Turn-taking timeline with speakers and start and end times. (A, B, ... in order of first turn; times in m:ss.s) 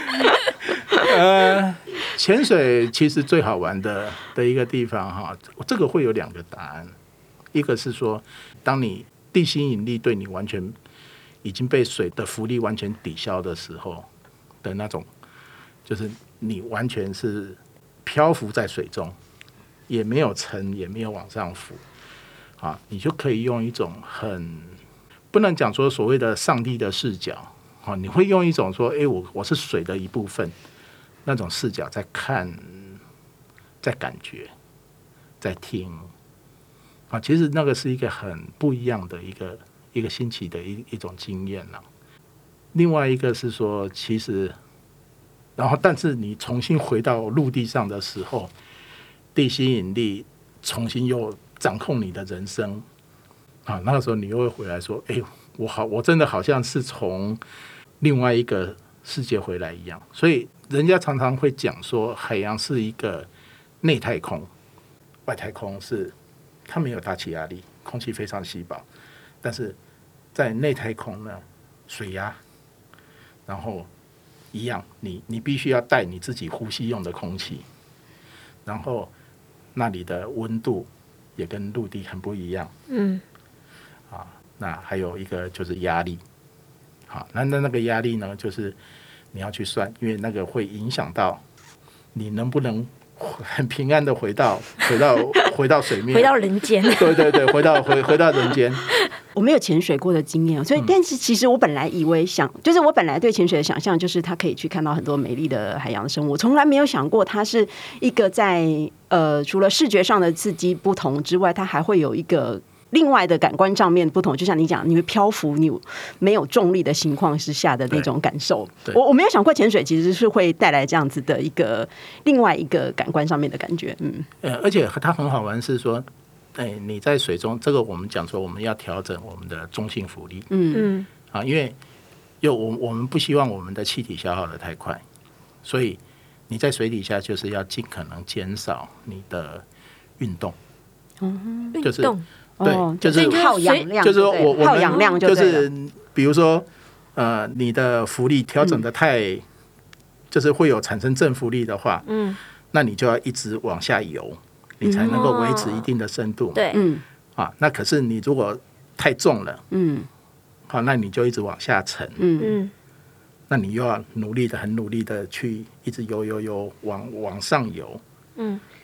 0:00.9-0:06.9 A
0:07.5-0:10.8 A
0:11.4-0:14.1 A
0:14.6-0:15.1 A
0:15.8-0:19.2 A
0:19.9-0:21.8 A
0:22.6-0:24.8 A
0:25.3-0:30.5 A
0:31.2-0:33.0 A
0:33.8-0:34.5 A
0:35.4-0:36.1 A
0:37.1-0:41.8 A
0:42.7-0:44.6 A
0:45.6-0:48.5 A
0:49.3-0:52.8 A
0:53.6-0:57.4 A
0:58.0-1:03.3 A
1:03.8-1:04.5 A
1:05.2-1:06.1 A
1:06.7-1:08.8 A
1:09.4-1:09.8 A
1:10.3-1:12.4 A
1:13.4-1:13.9 A
1:14.5-1:17.6 A
1:18.6-1:19.1 A
1:19.7-1:22.7 A
1:22.9-1:23.2 B
1:24.1-1:26.2 A
1:27.1-1:28.8 A
1:29.3-1:31.4 A
1:32.1-1:38.8 A
1:36.1-1:37.8 B
1:39.3-2:04.3 C
2:04.4-2:10.5 A
2:10.5-2:10.9 C
2:10.7-2:11.1 B
2:11.3-2:11.8 A
2:12.4-2:15.0 A
2:15.6-2:19.6 A
2:20.2-2:20.6 A
2:21.2-2:21.8 C
2:21.7-2:22.2 B
2:21.8-2:23.4 A
2:22.6-2:25.7 C
2:23.1-2:23.9 B
2:24.0-2:29.4 A
2:30.3-2:32.0 A
2:32.1-2:32.4 B
2:32.7-2:36.7 A
2:34.8-2:35.2 C
2:35.1-2:35.9 B
2:36.5-2:36.8 B
2:36.7-2:37.0 C
2:37.4-2:39.6 A
2:39.7-2:40.1 C
2:40.7-2:42.2 A
2:42.2-2:42.6 C
2:42.4-2:42.7 B
2:43.5-2:48.0 A
2:48.4-2:48.6 B